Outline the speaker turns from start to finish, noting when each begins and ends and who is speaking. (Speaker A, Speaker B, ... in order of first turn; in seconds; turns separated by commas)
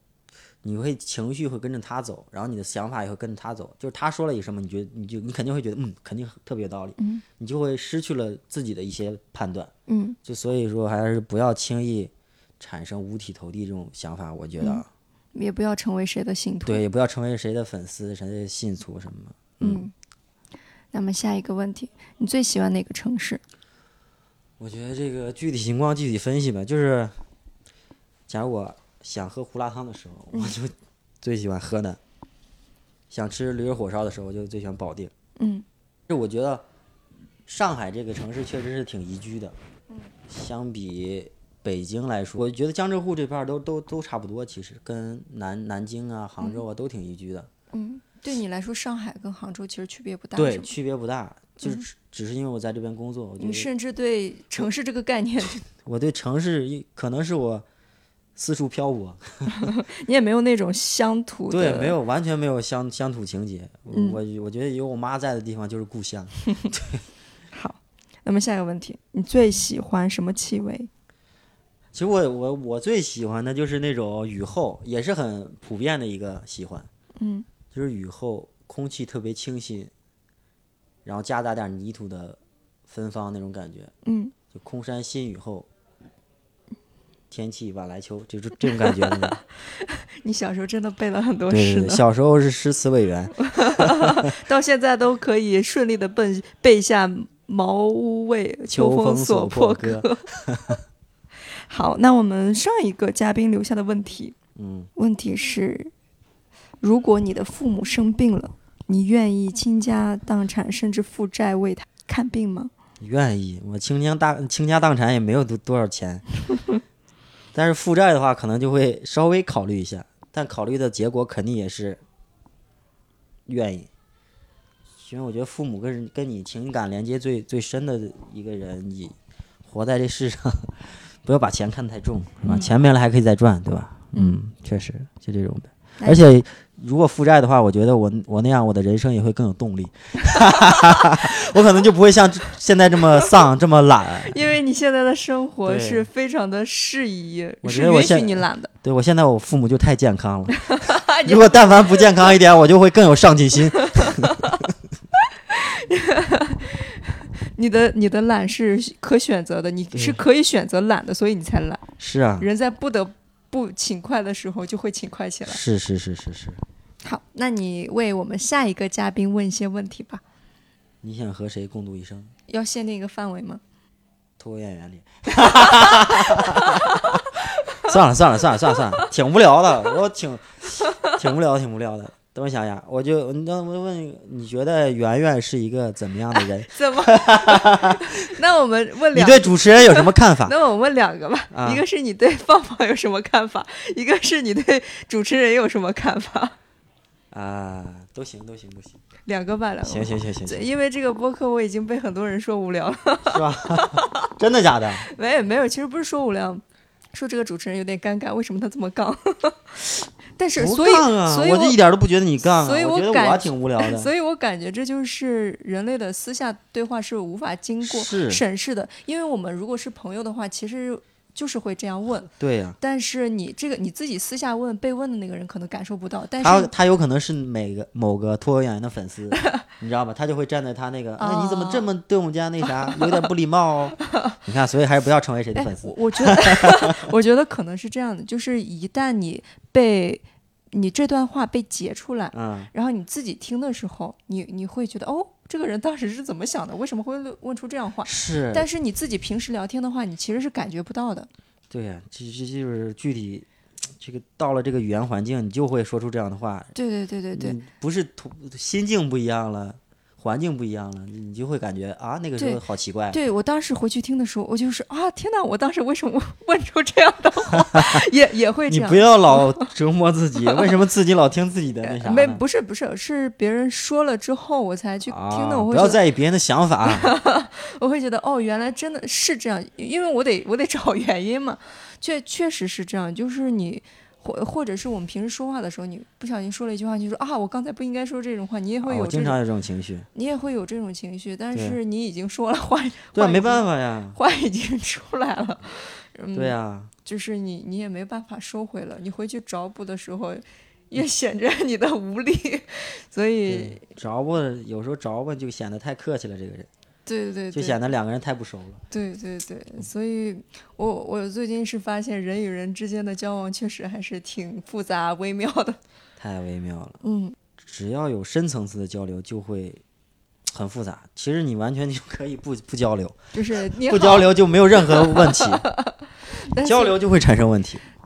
Speaker A: 0.6-9.7, Speaker B: 7.0-7.2, Speaker B: 9.9-10.2, Speaker A: 10.2-14.9, Speaker B: 14.6-16.8, Speaker A: 16.6-19.9, Speaker B: 19.6-19.9, Speaker B: 20.9-23.4, Speaker A: 24.6-27.1, Speaker A: 28.3-32.0, Speaker A: 33.1-35.1, Speaker B: 35.4-35.6, Speaker A: 36.1-36.6, Speaker A: 37.5-39.6, Speaker A: 40.3-47.5, Speaker B: 47.7-50.7, Speaker A: 50.4-53.7, Speaker B: 53.4-55.6, Speaker A: 55.7-57.6, Speaker A: 58.4-59.7, Speaker B: 59.6-62.0, Speaker A: 61.5-67.0, Speaker B: 63.9-64.2, Speaker B: 67.5-70.9, Speaker A: 71.9-76.9, Speaker B: 77.2-77.5, Speaker A: 77.7-79.9, Speaker A: 81.0-83.9, Speaker B: 84.0-84.3, Speaker A: 84.5-85.7, Speaker A: 87.3-89.4, Speaker B: 88.8-92.0, Speaker A: 91.5-94.2, Speaker B: 93.4-100.3, Speaker A: 98.7-100.8, Speaker B: 101.7-104.4, Speaker A: 104.6-104.9, Speaker B: 105.0-105.9, Speaker B: 106.8-112.7, Speaker A: 113.0-116.2, Speaker A: 117.5-122.0, Speaker A: 123.5-123.9, Speaker A: 125.0-144.4, Speaker B: 132.4-132.7, Speaker B: 136.0-136.3, Speaker B: 144.3-148.7, Speaker A: 145.7-146.1, Speaker A: 147.6-154.7, Speaker B: 150.6-152.3, Speaker B: 153.8-154.6, Speaker B: 155.5-161.9, Speaker A: 159.9-160.2, Speaker A: 162.0-162.5, Speaker B: 162.4-165.6, Speaker A: 165.5-166.6, Speaker B: 167.0-170.2, Speaker A: 171.0-172.3, Speaker B: 172.5-173.6, Speaker A: 174.4-177.2, Speaker B: 175.5-177.2, Speaker A: 177.8-188.2, Speaker B: 178.7-179.1, Speaker B: 186.7-196.6, Speaker A: 189.1-190.6, Speaker A: 191.5-191.8, Speaker A: 197.3-199.0, Speaker B: 199.3-204.3, Speaker A: 199.8-200.7, Speaker A: 203.3-205.1, Speaker B: 205.1-211.8, Speaker A: 210.6-214.1, Speaker B: 212.6-226.7, Speaker A: 217.8-218.4, Speaker A: 222.3-222.8, Speaker A: 226.4-237.1, Speaker B: 231.2-231.9, Speaker B: 235.6-251.3, Speaker A: 242.3-242.7, Speaker A: 248.1-248.7, Speaker A: 251.7-256.7, Speaker B: 256.8-257.6, Speaker A: 257.3-263.2, Speaker B: 262.4-269.7, Speaker A: 268.7-272.4, Speaker B: 271.8-276.0, Speaker A: 275.1-277.1, Speaker B: 276.9-289.4, Speaker A: 288.8-290.1, Speaker B: 290.1-303.9, Speaker A: 291.5-291.8, Speaker A: 293.1-294.2, Speaker A: 296.3-296.9, Speaker A: 303.5-306.7, Speaker B: 307.1-307.8, Speaker A: 307.5-308.8, Speaker B: 308.9-315.8, Speaker A: 316.2-317.0, Speaker B: 317.0-317.4, Speaker A: 317.6-319.8, Speaker A: 320.5-325.7, Speaker B: 323.3-324.3, Speaker B: 324.9-327.0, Speaker A: 326.6-327.8